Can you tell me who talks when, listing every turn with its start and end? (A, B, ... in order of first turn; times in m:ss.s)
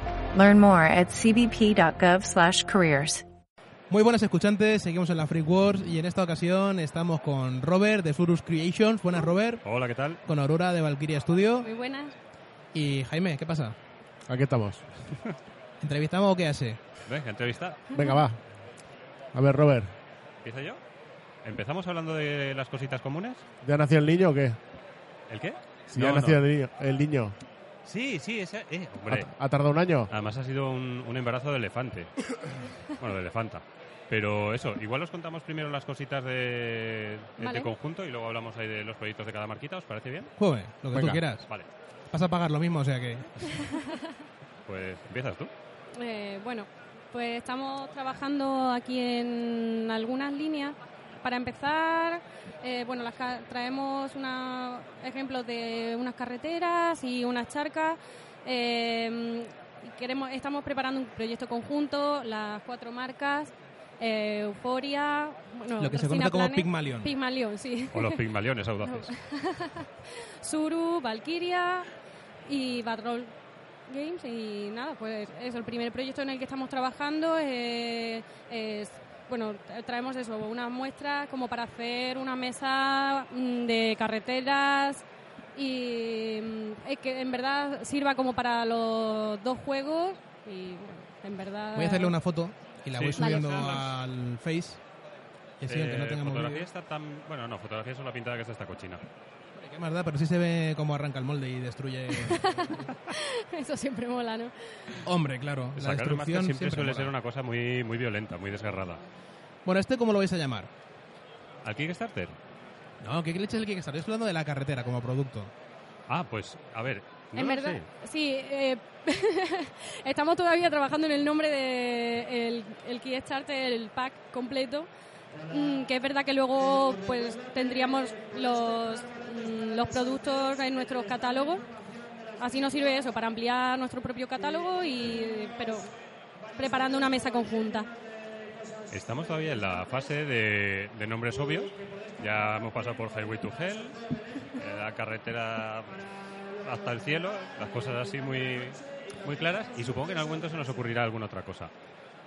0:00.3-0:03.2 A
0:03.9-0:09.6 B
0:09.6-0:10.2 C
0:10.2-0:11.7 B
0:11.6-0:12.2 D
0:12.7-0:13.8 B
0:14.3-0:14.8 E
0:15.8-0:16.8 B
0:17.1-0:17.8 C
0:17.9-0:18.4 E
0:19.3-0:19.9 E
0:20.4-0:20.8 C
0:21.4-0:23.4 C
0:23.6-0:24.6 E
0:25.3-0:26.4 C
0:25.9-0:27.3 E
0:27.8-0:29.3 C
0:29.0-0:30.1 E
0:30.1-0:40.3 C
0:37.4-0:37.7 D
0:40.4-0:41.4 B
0:40.9-0:41.2 E
0:42.1-0:43.7 B
0:43.5-0:44.1 D
0:44.6-0:45.5 C
0:45.9-1:08.2 D
1:05.8-1:07.1 B
1:07.9-1:09.1 C
1:08.8-1:11.9 D
1:12.4-1:13.3 D
1:13.9-1:32.2 D
1:31.7-1:34.8 B
1:32.9-1:33.9 C
1:33.2-1:33.9 D
1:35.6-1:36.7 B
1:35.6-1:39.0 C
1:39.6-1:42.7 B
1:42.1-1:44.9 D
1:45.0-1:47.1 B
1:45.7-1:49.0 C
1:49.6-1:50.7 B
1:51.6-1:52.4 C
1:53.0-1:55.5 B
1:56.1-1:57.8 C
1:57.4-2:04.9 D
2:05.5-2:11.6 D
2:12.4-2:15.9 D
2:16.5-2:17.9 D
2:18.9-2:24.0 C
2:24.5-2:26.0 C
2:26.6-2:31.7 C